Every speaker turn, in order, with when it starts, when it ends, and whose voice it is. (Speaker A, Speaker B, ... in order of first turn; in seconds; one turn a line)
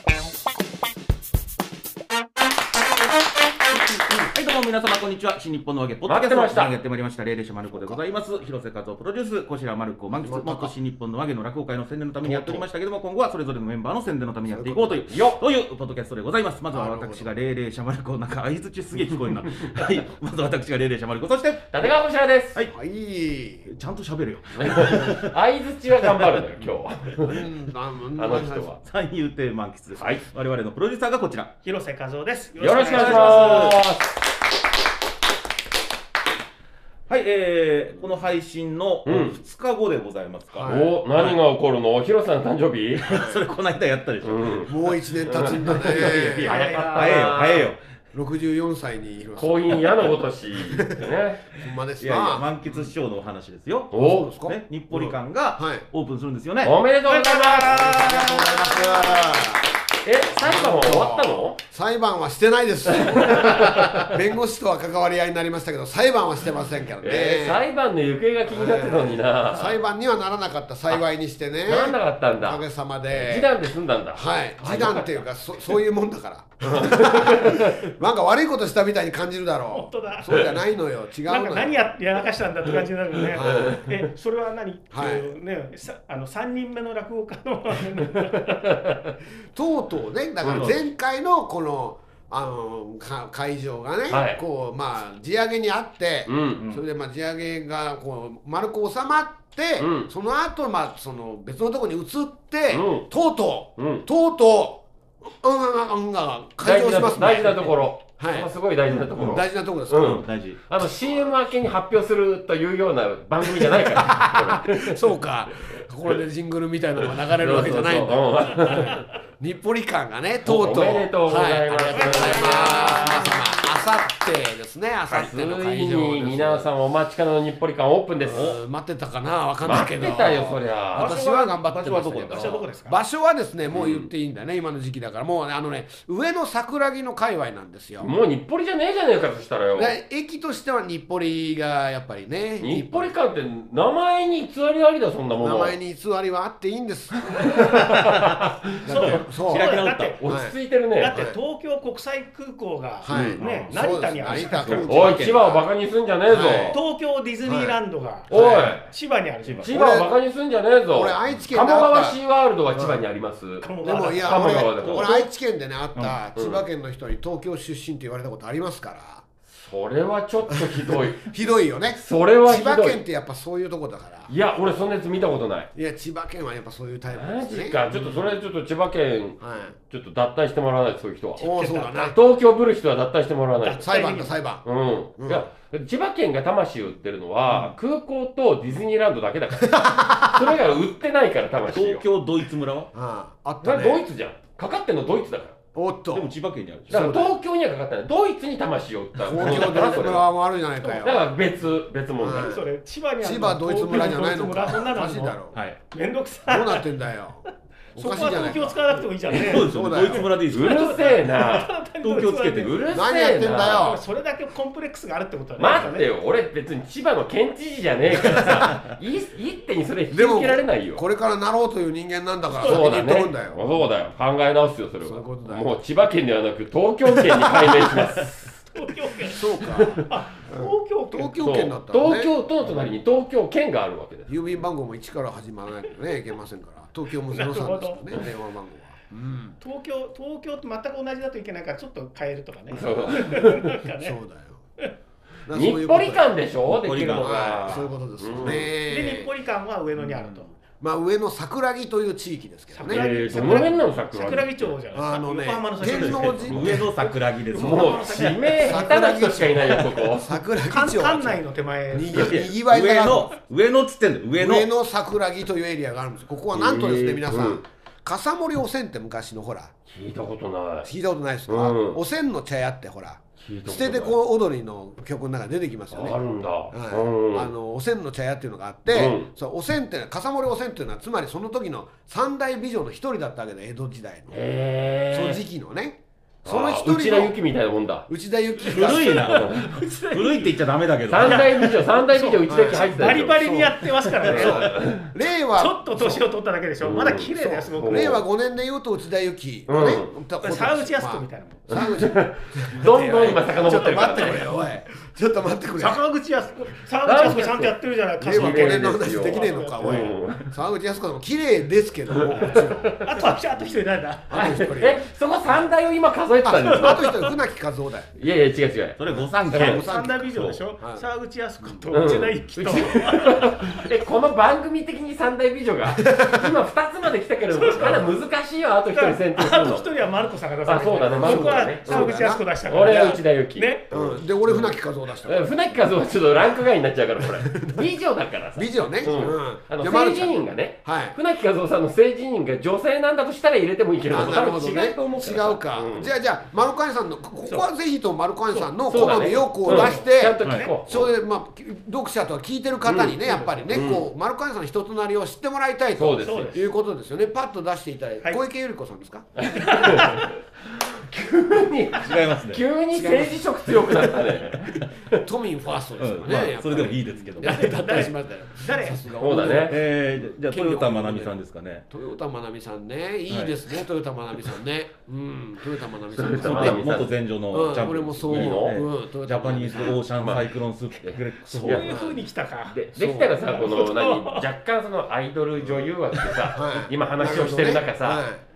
Speaker A: 4.3-21.9
Speaker B: 6.0-6.7
Speaker C: 7.7-8.0
Speaker C: 10.2-10.7
Speaker C: 12.2-12.7
Speaker C: 14.5-15.0
Speaker B: 15.1-15.4
Speaker C: 16.7-17.3
Speaker B: 21.7-22.6
Speaker C: 22.7-23.7
Speaker A: 23.7-25.3
Speaker B: 24.6-27.5
Speaker C: 24.8-25.2
Speaker A: 26.0-26.3
Speaker C: 27.2-28.7
Speaker B: 28.2-28.8
Speaker A: 28.8-31.5
Speaker D: 31.6-33.8
Speaker B: 32.6-34.2
Speaker A: 32.8-33.8
Speaker A: 37.1-41.4
Speaker B: 39.0-39.4
Speaker C: 40.5-40.9
Speaker B: 40.6-43.1
Speaker A: 43.0-44.9
Speaker C: 43.0-43.4
Speaker B: 44.2-44.7
Speaker C: 44.6-46.6
Speaker B: 45.2-47.7
Speaker A: 45.4-46.2
Speaker D: 46.3-47.4
Speaker A: 46.9-47.8
Speaker C: 48.1-52.5
Speaker B: 49.4-51.5
Speaker A: 52.0-56.8
Speaker B: 53.9-54.3
Speaker C: 54.0-55.8
Speaker B: 56.6-58.2
Speaker D: 57.1-59.1
Speaker C: 57.5-59.7
Speaker B: 60.0-61.6
Speaker C: 60.4-67.6
Speaker B: 62.9-64.2
Speaker B: 67.0-69.8
Speaker C: 68.5-73.5
Speaker B: 71.7-75.2
Speaker C: 74.1-81.8
Speaker B: 76.7-77.9
Speaker D: 79.7-80.6
Speaker D: 81.2-88.6
Speaker C: 83.3-83.8
Speaker B: 83.4-83.9
Speaker C: 84.9-85.3
Speaker B: 88.3-89.1
Speaker C: 89.5-108.5
Speaker B: 90.4-90.8
Speaker A: 90.5-90.8
Speaker B: 94.1-94.4
Speaker B: 96.3-96.6
Speaker B: 99.8-100.1
Speaker B: 102.7-103.1
Speaker B: 103.8-104.0
Speaker B: 106.6-115.8
Speaker C: 109.1-110.2
Speaker A: 110.0-110.6
Speaker C: 110.8-111.3
Speaker C: 113.4-126.7
Speaker B: 117.1-119.1
Speaker B: 120.4-123.3
Speaker D: 121.9-123.6
Speaker B: 125.1-128.6
Speaker C: 128.2-138.1
Speaker B: 129.6-131.1
Speaker D: 130.9-133.0
Speaker A: 131.0-132.6
Speaker B: 133.7-134.1
Speaker B: 138.0-139.9
Speaker C: 139.7-143.1
Speaker B: 142.6-145.7
Speaker C: 145.4-147.9
Speaker B: 147.5-149.2
Speaker A: 147.8-148.3
Speaker C: 148.8-149.7
Speaker D: 148.9-150.4
Speaker A: 149.4-150.2
Speaker B: 150.2-151.2
Speaker C: 150.2-151.4
Speaker D: 151.0-154.9
Speaker C: 153.0-155.6
Speaker B: 153.1-153.4
Speaker A: 153.4-155.6
Speaker B: 154.8-156.8
Speaker C: 156.3-156.8
Speaker D: 156.7-158.3
Speaker C: 157.4-157.8
Speaker C: 158.3-158.8
Speaker B: 158.3-158.9
Speaker D: 158.8-159.7
Speaker A: 159.4-159.7
Speaker B: 159.6-163.7
Speaker C: 159.7-160.1
Speaker C: 160.9-162.2
Speaker C: 162.7-163.0
Speaker D: 163.6-164.7
Speaker C: 163.8-169.2
Speaker B: 164.2-165.2
Speaker A: 164.8-165.1
Speaker B: 166.3-166.6
Speaker B: 169.5-171.3
Speaker C: 170.5-174.3
Speaker B: 172.0-173.0
Speaker B: 174.3-175.7
Speaker C: 175.7-178.4
Speaker B: 177.1-183.9
Speaker C: 179.4-179.8
Speaker C: 181.4-182.2
Speaker D: 181.4-181.8
Speaker C: 183.6-184.7
Speaker D: 183.9-184.3
Speaker B: 184.6-192.0
Speaker C: 185.2-185.4
Speaker A: 187.5-187.7
Speaker C: 189.6-190.6
Speaker A: 191.7-192.9
Speaker C: 192.9-194.0
Speaker B: 193.6-195.6
Speaker C: 195.7-196.3
Speaker A: 196.1-197.2
Speaker C: 196.9-197.3
Speaker B: 196.9-200.2
Speaker C: 199.2-201.2
Speaker A: 199.3-200.2
Speaker B: 201.0-202.6
Speaker C: 202.2-202.6
Speaker D: 202.3-205.4
Speaker C: 203.2-205.6
Speaker A: 205.5-205.8
Speaker D: 205.9-206.9
Speaker C: 206.5-210.3
Speaker D: 207.9-210.0
Speaker A: 209.3-211.2
Speaker B: 210.5-211.7
Speaker D: 210.6-212.9
Speaker A: 212.0-212.9
Speaker B: 212.6-214.0
Speaker C: 212.9-214.0
Speaker D: 213.7-216.1
Speaker B: 215.6-221.0
Speaker C: 218.2-218.6
Speaker C: 220.1-223.8
Speaker B: 222.6-228.3
Speaker D: 222.6-222.8
Speaker C: 225.0-225.7
Speaker D: 228.7-231.4
Speaker C: 229.3-232.3
Speaker B: 229.7-230.0
Speaker B: 231.4-234.3
Speaker C: 234.3-239.6
Speaker D: 237.3-238.2
Speaker D: 239.6-244.2
Speaker C: 242.7-243.3
Speaker B: 242.7-243.7
Speaker C: 244.0-244.6
Speaker C: 245.4-246.3
Speaker B: 245.5-248.7
Speaker A: 246.7-247.9
Speaker C: 247.2-249.3
Speaker D: 248.8-250.5
Speaker C: 250.1-253.1
Speaker D: 252.7-258.8
Speaker B: 252.9-254.7
Speaker C: 254.9-256.9
Speaker A: 255.8-258.4
Speaker B: 257.6-260.4
Speaker C: 258.6-263.3
Speaker A: 259.5-259.9
Speaker D: 260.7-262.5
Speaker A: 262.1-264.7
Speaker C: 264.4-269.7
Speaker B: 266.5-267.6
Speaker B: 269.9-270.9
Speaker C: 270.8-276.2
Speaker B: 271.5-272.0
Speaker B: 273.4-274.1
Speaker B: 275.9-277.5
Speaker C: 276.7-284.4
Speaker B: 278.9-279.3
Speaker B: 284.3-285.4
Speaker C: 285.1-287.4
Speaker B: 286.4-288.1
Speaker C: 288.1-289.5
Speaker A: 288.7-291.6
Speaker D: 288.7-290.6
Speaker B: 289.3-289.7
Speaker B: 291.1-293.4
Speaker D: 291.2-298.2
Speaker C: 292.5-296.3
Speaker B: 294.2-295.1
Speaker B: 296.8-298.2
Speaker C: 297.3-306.0
Speaker B: 299.7-300.1
Speaker D: 300.4-301.8
Speaker B: 301.7-304.5
Speaker D: 305.8-310.1
Speaker B: 307.0-310.5
Speaker C: 308.2-313.0
Speaker B: 312.1-313.1
Speaker D: 312.4-314.6
Speaker C: 314.3-315.1
Speaker B: 314.3-317.3
Speaker C: 316.4-318.1
Speaker D: 316.7-317.2
Speaker B: 318.2-319.0
Speaker A: 319.0-320.6
Speaker D: 319.5-323.5
Speaker C: 319.6-320.2
Speaker C: 321.6-322.2
Speaker B: 321.9-329.9
Speaker C: 325.9-326.5
Speaker D: 327.5-328.2
Speaker D: 328.9-333.9
Speaker B: 330.6-346.1
Speaker C: 330.7-333.2
Speaker C: 333.9-335.8
Speaker C: 337.2-337.8
Speaker C: 338.6-341.2
Speaker C: 344.1-359.3
Speaker D: 348.5-350.7
Speaker B: 348.8-351.1
Speaker A: 350.4-350.7
Speaker B: 352.8-353.1
Speaker D: 353.2-353.8
Speaker B: 353.7-354.1
Speaker B: 356.0-356.5
Speaker D: 356.2-356.7
Speaker B: 359.4-365.2
Speaker D: 359.5-360.3
Speaker A: 362.0-362.6
Speaker C: 362.9-364.2
Speaker C: 365.1-371.4
Speaker A: 366.0-367.9
Speaker D: 367.4-369.0
Speaker B: 369.2-369.8
Speaker A: 369.5-371.9
Speaker C: 371.9-380.0
Speaker A: 373.3-373.6
Speaker B: 376.1-377.1
Speaker A: 376.4-381.9
Speaker B: 378.3-378.8
Speaker B: 379.8-382.0
Speaker D: 381.6-382.8
Speaker C: 381.9-382.2
Speaker B: 382.7-388.2
Speaker C: 382.9-383.4
Speaker D: 383.4-384.5
Speaker C: 385.6-385.9
Speaker C: 386.5-388.4